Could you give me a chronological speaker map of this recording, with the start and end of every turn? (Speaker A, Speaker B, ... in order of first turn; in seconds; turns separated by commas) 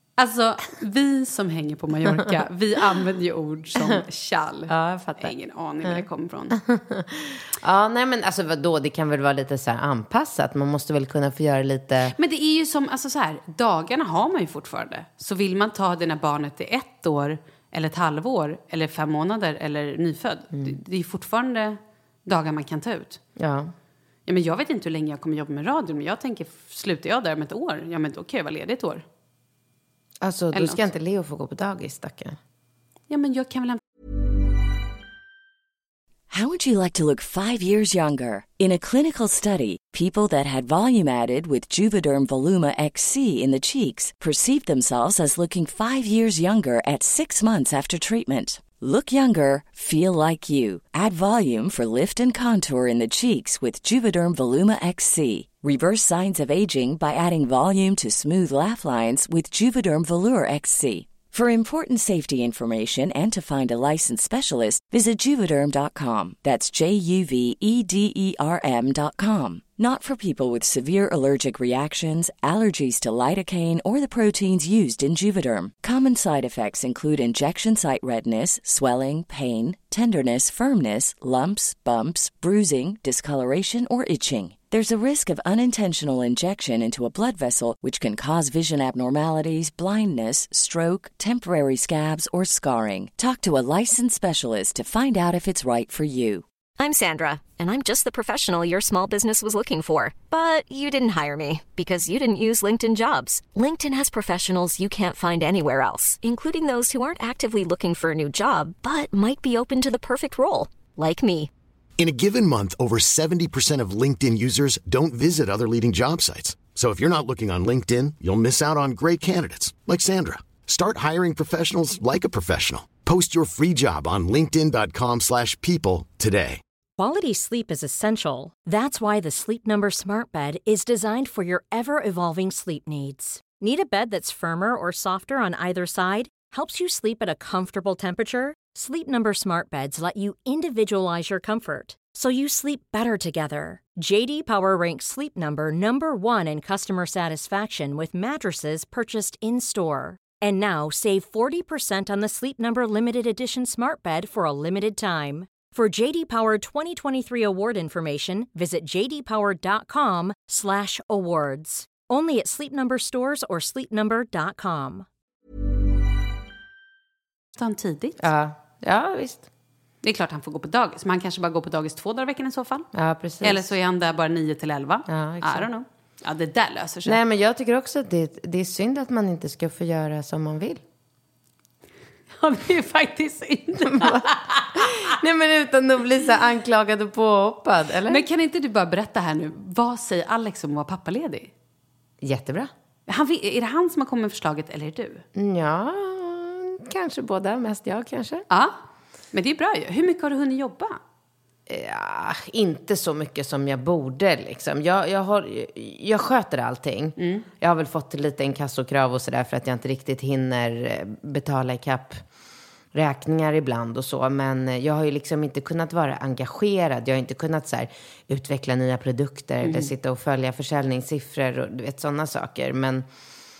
Speaker A: 0.2-6.6, Speaker B: 4.7-12.2, Speaker A: 12.1-23.2, Speaker B: 23.4-23.7, Speaker A: 24.2-29.0, Speaker B: 30.2-32.4, Speaker A: 30.5-30.8, Speaker A: 33.1-33.8, Speaker C: 36.3-96.4, Speaker D: 96.8-111.5, Speaker E: 112.0-126.6, Speaker F: 127.0-165.1, Speaker A: 167.6-168.3, Speaker B: 168.2-169.5, Speaker A: 170.0-172.9, Speaker B: 172.9-173.7, Speaker A: 173.4-177.2, Speaker B: 175.1-175.7, Speaker B: 177.1-180.8, Speaker A: 182.4-185.1, Speaker B: 183.8-188.2, Speaker A: 188.1-191.5, Speaker B: 192.2-192.7, Speaker A: 193.1-195.2, Speaker B: 195.3-198.4, Speaker A: 198.5-198.8, Speaker A: 199.3-201.0, Speaker B: 201.7-212.2, Speaker A: 207.2-207.4, Speaker B: 212.9-223.1, Speaker A: 219.6-219.9